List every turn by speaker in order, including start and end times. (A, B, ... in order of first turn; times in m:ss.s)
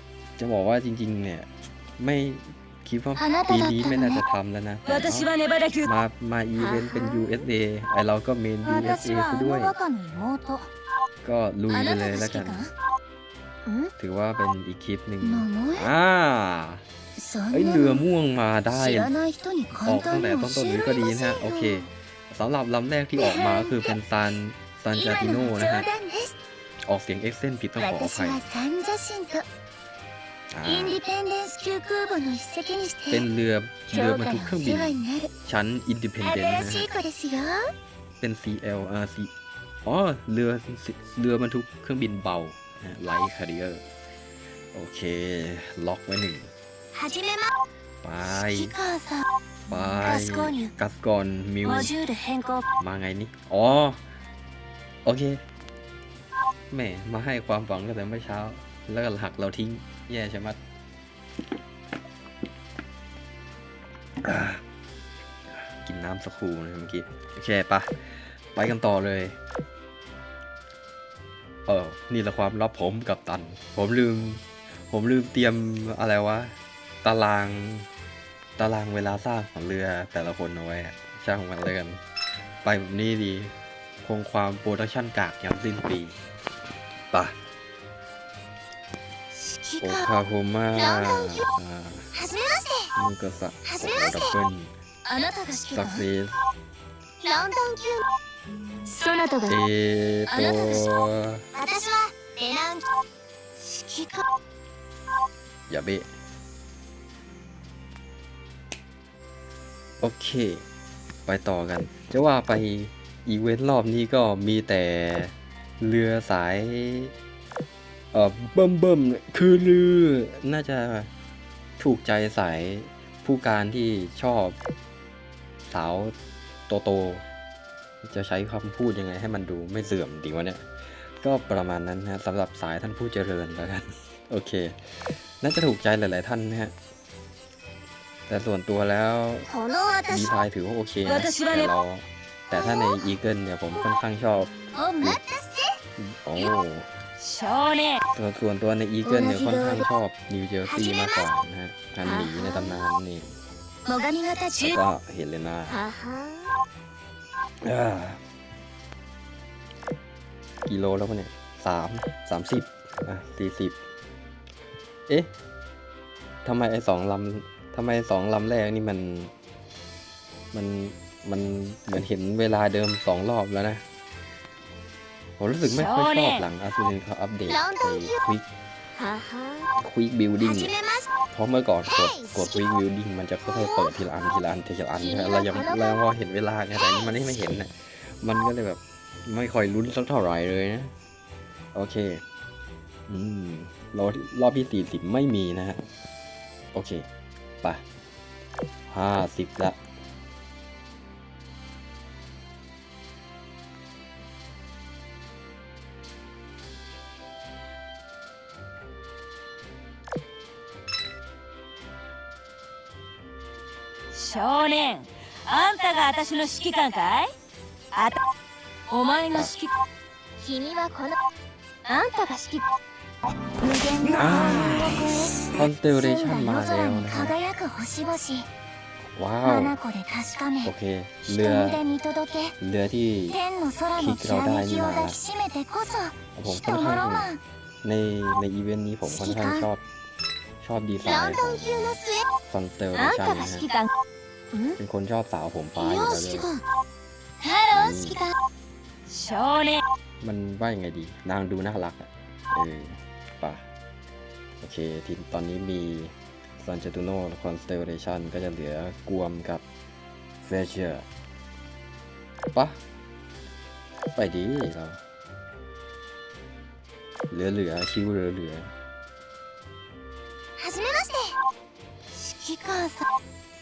0:00.4-0:09.7 A
0:03.2-0:04.2 B
0:04.9-0:05.9 C
0:06.6-0:07.4 B
0:08.6-0:10.7 B
0:11.2-0:12.7 A
0:11.7-0:12.7 B
0:13.6-0:13.9 B
0:14.0-0:16.8 A
0:15.2-0:15.9 B
0:17.2-0:18.0 B
0:17.5-0:19.1 A
0:18.7-0:21.9 B
0:19.8-0:25.8 A
0:23.2-0:23.9 B
0:24.9-0:26.4 B
0:26.8-0:28.4 A
0:27.8-0:29.4 B
0:30.5-0:31.0 A
0:30.6-0:33.2 B
0:33.1-0:36.9 A
0:33.9-0:35.3 B
0:36.2-0:37.7 B
0:38.2-0:39.3 A
0:39.8-0:43.8 A
0:44.7-0:46.5 A
0:46.9-0:47.6 B
0:48.0-0:48.8 A
0:48.2-0:49.2 B
0:49.7-0:51.9 A
0:50.0-0:50.7 B
0:51.6-0:52.6 B
0:52.8-0:54.0 A
0:55.0-0:55.4 A
0:56.7-1:00.6 A
1:04.2-1:04.6 A
1:05.8-1:09.4 A
1:11.7-1:17.9 A
1:18.6-1:22.0 A
1:22.6-1:26.2 A
1:27.1-1:27.4 A
1:29.3-1:30.1 B
1:29.8-1:32.1 A
1:30.7-1:31.5 B
1:32.1-1:32.9 B
1:33.0-1:34.7 A
1:33.6-1:34.4 B
1:35.0-1:36.0 B
1:35.7-1:36.4 A
1:37.2-1:38.0 B
1:38.8-1:39.6 B
1:39.4-1:41.4 A
1:40.3-1:40.9 B
1:41.5-1:42.8 B
1:43.6-1:44.3 B
1:45.7-1:46.1 A
1:50.0-1:50.6 A
1:51.2-1:57.1 A
1:58.1-2:01.1 A
2:01.8-2:04.6 A
2:05.7-2:06.1 A
2:06.7-2:07.2 A
2:08.0-2:16.7 A
2:18.3-2:19.5 A
2:19.5-2:20.4 B
2:20.1-2:25.2 A
2:21.1-2:21.7 C
2:22.5-2:23.0 B
2:24.7-2:25.8 B
2:26.0-2:26.9 A
2:27.2-2:27.8 C
2:27.5-2:28.0 B
2:28.1-2:33.3 A
2:29.0-2:29.9 B
2:30.7-2:31.3 B
2:32.0-2:32.8 B
2:33.8-2:34.8 B
2:34.6-2:35.8 A
2:35.7-2:36.5 B
2:37.6-2:38.2 A
2:40.6-2:43.8 A
2:46.4-2:49.3 A
2:50.5-2:53.8 A
2:55.4-2:58.4 A
2:55.8-2:56.4 C
2:57.6-2:58.1 B
2:59.0-2:59.7 B
2:59.8-3:00.7 A
3:00.4-3:01.1 B
3:01.3-3:10.9 A
3:02.1-3:02.5 B
3:05.0-3:06.0 B
3:11.7-3:12.2 A
3:13.1-3:15.8 A
3:16.7-3:17.1 A
3:18.9-3:19.8 A
3:34.1-3:37.3 C
3:37.9-3:38.2 C
3:38.9-3:39.7 C
3:38.9-3:39.4 B
3:40.4-3:41.2 B
3:41.8-3:42.6 B
3:43.6-3:48.5 B
3:44.1-3:47.3 A
3:49.1-3:49.8 A
3:49.4-3:50.7 B
3:50.6-3:51.8 A
3:51.2-3:52.6 B
3:52.6-3:53.4 A
3:53.3-3:57.4 B
3:54.0-3:55.2 A
3:56.3-3:57.3 A
3:57.8-3:59.8 A
3:59.0-3:59.7 B
4:00.6-4:03.7 A
4:01.0-4:02.3 B
4:02.9-4:03.9 B
4:04.5-4:04.8 B
4:04.8-4:06.5 A
4:05.8-4:06.6 B
4:07.4-4:08.3 B
4:07.7-4:08.2 A
4:09.1-4:09.8 B
4:09.2-4:09.8 C
4:10.2-4:13.6 A
4:14.6-4:19.6 A
4:20.4-4:21.0 A
4:22.5-4:22.8 A
4:24.2-4:25.0 A
4:27.3-4:28.7 A
4:30.6-4:31.4 B
4:32.1-4:33.1 B